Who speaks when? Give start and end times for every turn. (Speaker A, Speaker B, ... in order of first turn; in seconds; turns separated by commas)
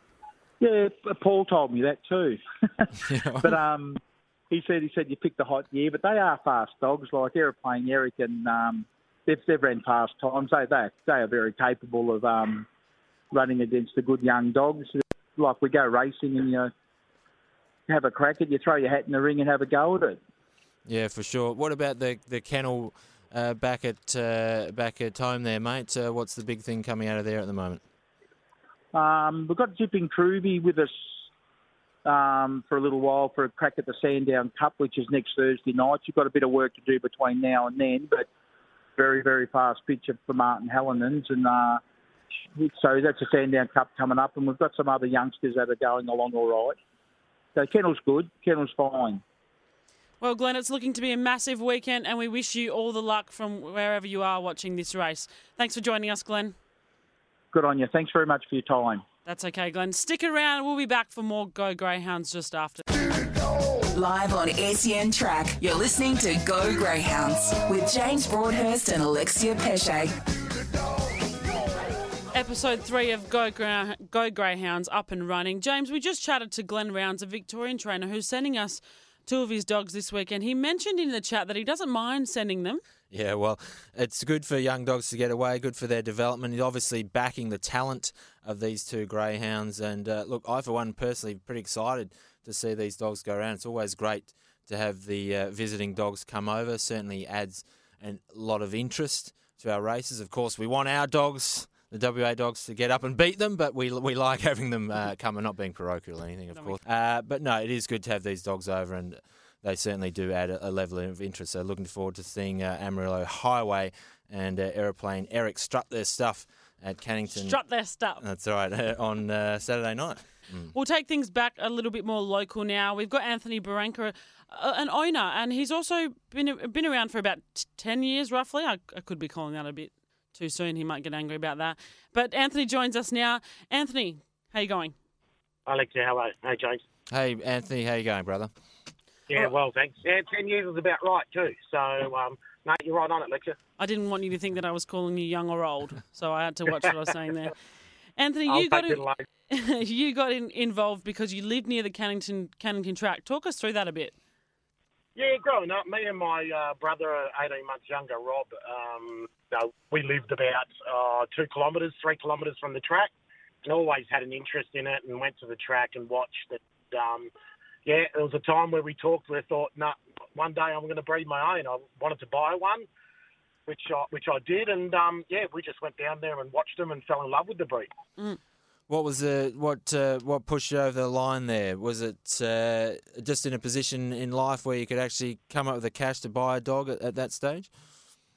Speaker A: 0.6-12.7, Speaker B: 3.0-3.5, Speaker A: 13.3-16.7, Speaker A: 17.9-20.2, Speaker B: 20.9-27.8, Speaker A: 28.9-30.9, Speaker A: 32.0-38.3, Speaker A: 39.0-41.8, Speaker A: 42.5-46.8, Speaker A: 47.5-49.2, Speaker C: 50.2-56.5, Speaker A: 57.5-59.0, Speaker C: 59.2-62.8, Speaker D: 63.9-70.2, Speaker C: 72.3-82.8, Speaker B: 83.1-117.6, Speaker C: 106.5-106.8, Speaker C: 117.3-118.2, Speaker B: 118.2-120.7, Speaker C: 120.7-134.9, Speaker E: 135.7-136.8, Speaker B: 137.1-138.5, Speaker E: 139.3-143.6, Speaker C: 143.8-147.5, Speaker C: 148.2-154.2, Speaker E: 148.5-149.2, Speaker E: 155.2-163.1, Speaker E: 163.6-167.3, Speaker E: 167.8-172.9, Speaker E: 173.7-177.9, Speaker B: 178.9-187.7